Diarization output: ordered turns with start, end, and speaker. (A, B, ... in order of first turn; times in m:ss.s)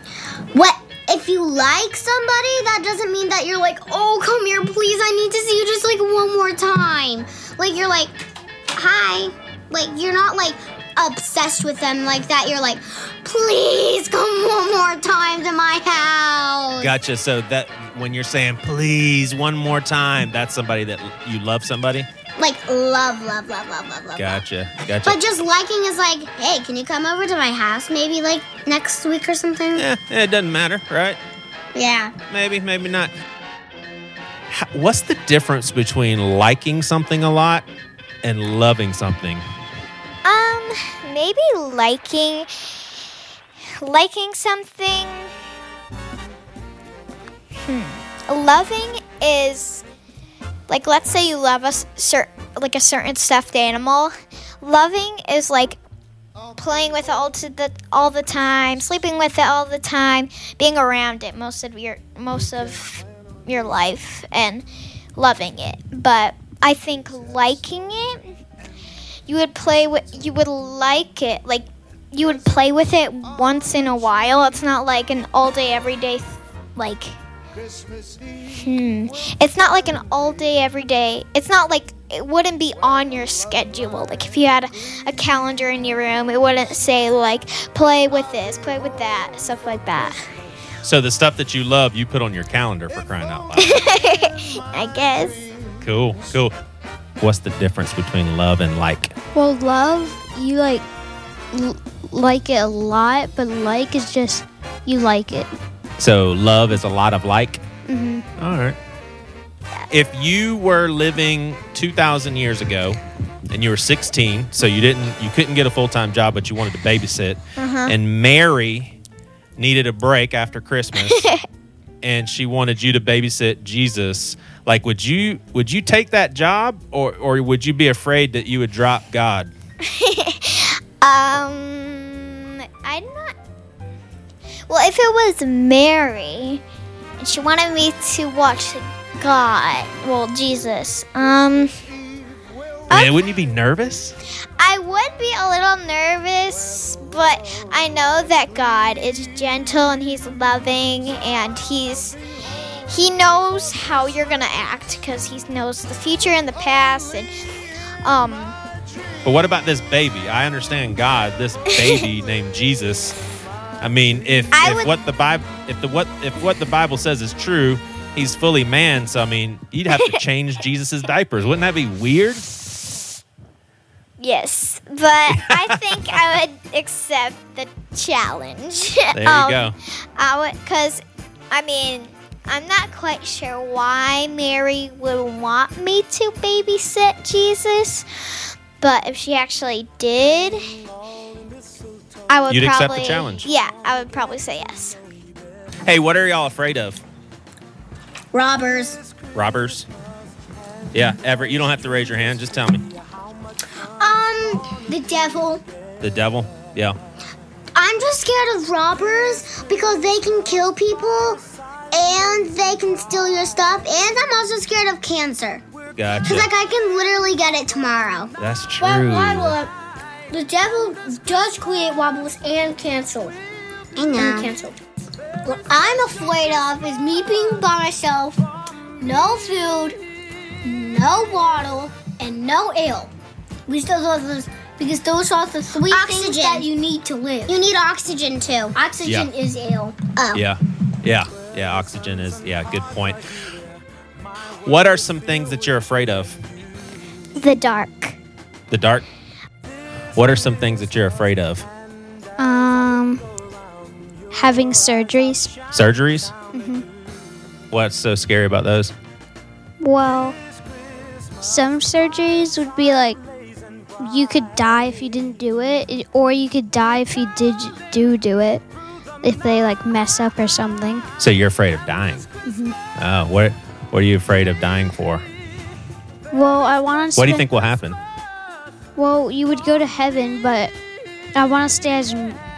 0:00.5-0:16.9 A
0:16.8-0:22.1 B
0:22.4-0:24.4 A
0:24.2-0:25.2 B
0:25.0-0:29.8 A
0:29.8-0:31.2 B
0:31.7-0:32.1 A
0:32.3-0:33.1 B
0:34.5-0:37.7 B
0:38.2-0:39.4 B
0:40.2-0:42.6 C
0:43.8-0:45.3 C
0:47.6-0:49.8 C
0:50.7-0:55.8 C
0:56.6-1:04.6 C
1:05.2-1:08.3 C
1:09.3-1:17.2 C
1:18.6-1:30.3 C
1:30.8-1:33.7 B
1:33.6-1:35.5 C
1:35.8-1:36.6 B
1:37.2-1:39.1 B
1:39.3-1:40.8 D
1:41.5-1:45.5 D
1:46.0-1:47.6 B
1:47.9-1:48.2 D
1:48.4-1:48.8 B
1:49.9-1:53.0 B
1:53.5-1:59.0 B
1:57.6-1:57.9 C
1:59.6-2:01.2 B
2:01.1-2:01.4 C
2:02.0-2:09.5 B
2:09.8-2:13.4 C
2:14.7-2:16.6 C
2:17.2-2:21.7 C
2:22.9-2:24.2 B
2:24.6-2:32.2 C
2:32.9-2:37.3 C
2:38.0-2:38.6 C
2:39.2-2:43.2 B
2:43.8-2:52.5 B
2:44.5-2:44.9 C
2:54.2-3:08.1 C
2:55.3-2:56.2 B
2:59.1-2:59.8 B
3:08.8-3:10.6 C
3:12.3-3:15.0 C
3:12.5-3:13.5 B
3:15.8-3:17.0 B
3:18.3-3:18.6 A
3:18.4-3:19.0 E
3:19.4-3:19.9 B
3:20.9-3:22.9 B
3:24.0-3:25.6 E
3:26.0-3:27.0 B
3:27.8-3:28.3 A
3:27.8-3:29.7 E
3:29.5-3:31.4 A
3:31.9-3:35.6 A
3:36.0-3:36.5 B
3:36.2-3:38.3 A
3:38.4-3:39.6 B
3:38.8-3:39.7 E
3:40.3-3:43.4 E
3:44.0-3:44.5 A
3:44.2-3:44.8 E
3:45.4-3:48.4 E
3:49.0-3:50.0 E
3:50.6-3:53.1 E
3:53.7-3:57.6 E
3:55.8-3:56.7 A
3:57.5-3:58.8 A
3:58.8-4:00.0 E
3:59.0-3:59.3 B
4:00.2-4:00.4 A
4:00.3-4:03.4 B
4:04.6-4:06.4 B
4:07.4-4:08.2 C
4:08.7-4:09.0 B
4:10.2-4:11.7 B
4:12.4-4:13.2 D
4:14.3-4:15.6 D
4:15.7-4:16.3 B
4:16.5-4:16.9 D
4:17.7-4:18.9 B
4:19.8-4:20.4 D
4:21.4-4:23.2 D
4:24.0-4:28.6 D
4:29.2-4:31.1 D
4:31.2-4:32.3 B
4:32.4-4:32.8 D
4:33.0-4:35.2 B
4:36.3-4:37.5 D
4:37.2-4:38.0 B
4:39.0-4:40.7 D
4:41.3-4:42.4 D